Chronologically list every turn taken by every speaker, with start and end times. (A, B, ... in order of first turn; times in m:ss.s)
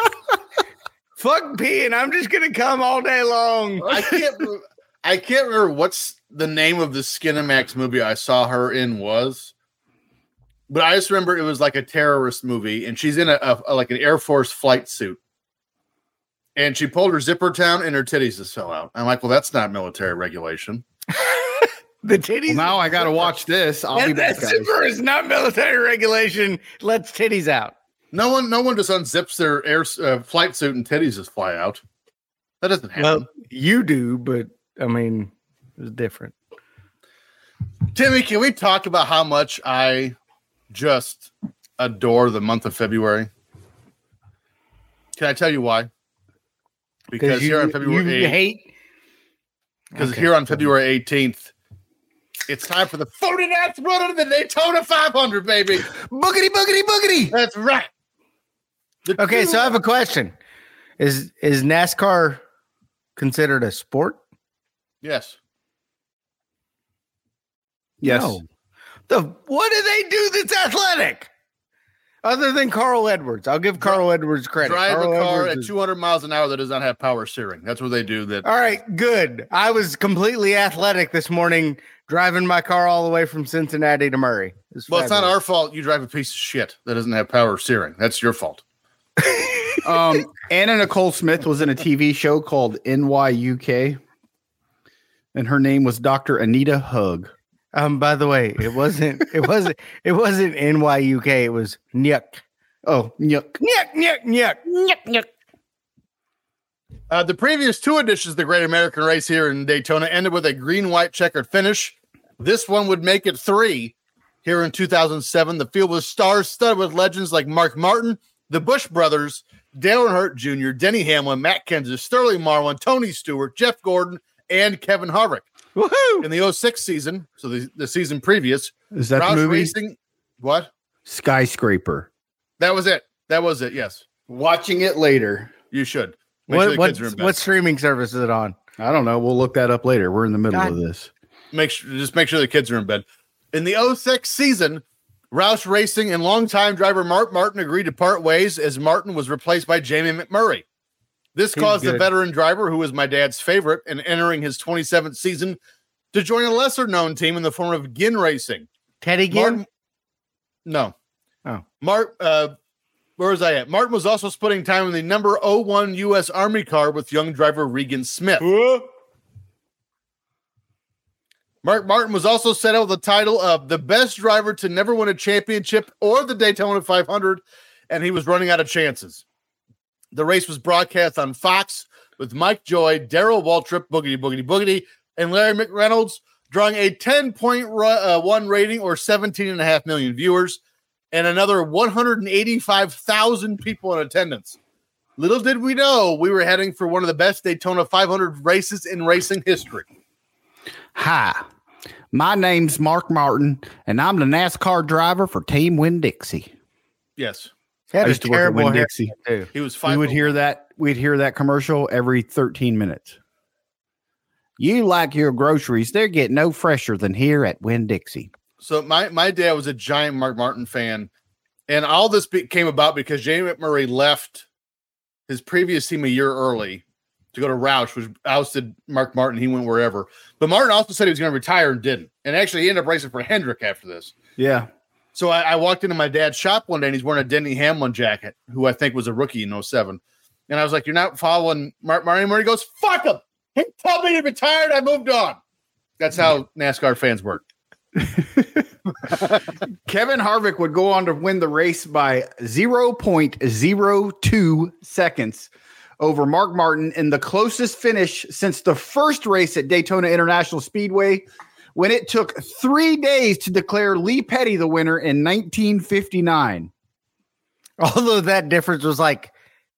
0:01.2-0:04.0 A
0:03.9-0:09.5 B
0:10.7-0:15.2 B
0:16.6-0:20.8 B
0:21.2-0:23.3 A
0:22.5-0:24.7 C
0:23.9-0:27.7 A
0:28.1-0:31.8 B
0:32.6-0:33.3 B
0:33.0-0:36.3 A
0:37.9-0:40.2 B
0:40.7-0:43.3 B
0:45.2-0:45.9 B
0:47.1-0:48.4 B
0:47.2-0:48.7 A
0:49.9-0:50.7 A
0:50.0-0:51.5 B
0:52.5-0:55.9 B
0:55.8-0:57.4 C
0:57.3-0:57.9 B
0:59.0-0:59.8 B
0:59.2-1:00.3 A
1:01.0-1:02.4 A
1:03.2-1:04.2 A
1:05.0-1:05.4 B
1:08.0-1:08.4 C
1:08.0-1:08.4 A
1:09.1-1:11.3 A
1:12.2-1:15.7 A
1:14.6-1:18.5 B
1:18.4-1:25.3 A
1:24.9-1:28.6 B
1:29.8-1:34.0 C
1:35.3-1:37.3 C
1:37.7-1:42.4 A
1:42.8-1:43.6 C
1:43.6-1:45.3 A
1:47.1-2:05.5 B
2:05.8-2:06.3 A
2:06.2-2:10.7 B
2:08.9-2:09.8 C
2:11.1-2:12.1 C
2:12.6-2:14.0 B
2:14.3-2:15.5 C
2:15.7-2:17.4 B
2:16.5-2:18.6 A
2:18.8-2:21.1 C
2:21.5-2:30.6 B
2:31.4-2:35.6 B
2:31.6-2:32.1 A
2:36.1-2:38.7 B
2:39.0-2:39.6 A
2:39.3-2:39.6 B
2:40.7-2:40.9 B
2:41.8-2:42.5 B
2:43.2-2:48.4 B
2:48.4-2:48.9 A
2:51.6-2:59.2 B
3:00.1-3:10.6 B
3:11.1-3:14.6 B
3:15.2-3:19.8 B
3:21.0-3:21.5 C
3:22.1-3:26.5 C
3:27.2-3:27.5 B
3:27.9-3:29.5 A
3:28.0-3:29.1 C
3:29.5-3:30.3 B
3:29.8-3:33.2 C
3:34.6-3:38.3 C
3:38.6-3:41.1 B
3:41.7-3:44.5 B
3:45.3-3:46.8 B
3:47.3-3:54.2 B
3:54.4-3:54.7 C
3:55.2-4:05.4 B
4:06.0-4:07.4 B
4:08.2-4:08.6 C
4:09.8-4:26.7 C
4:27.8-4:29.3 A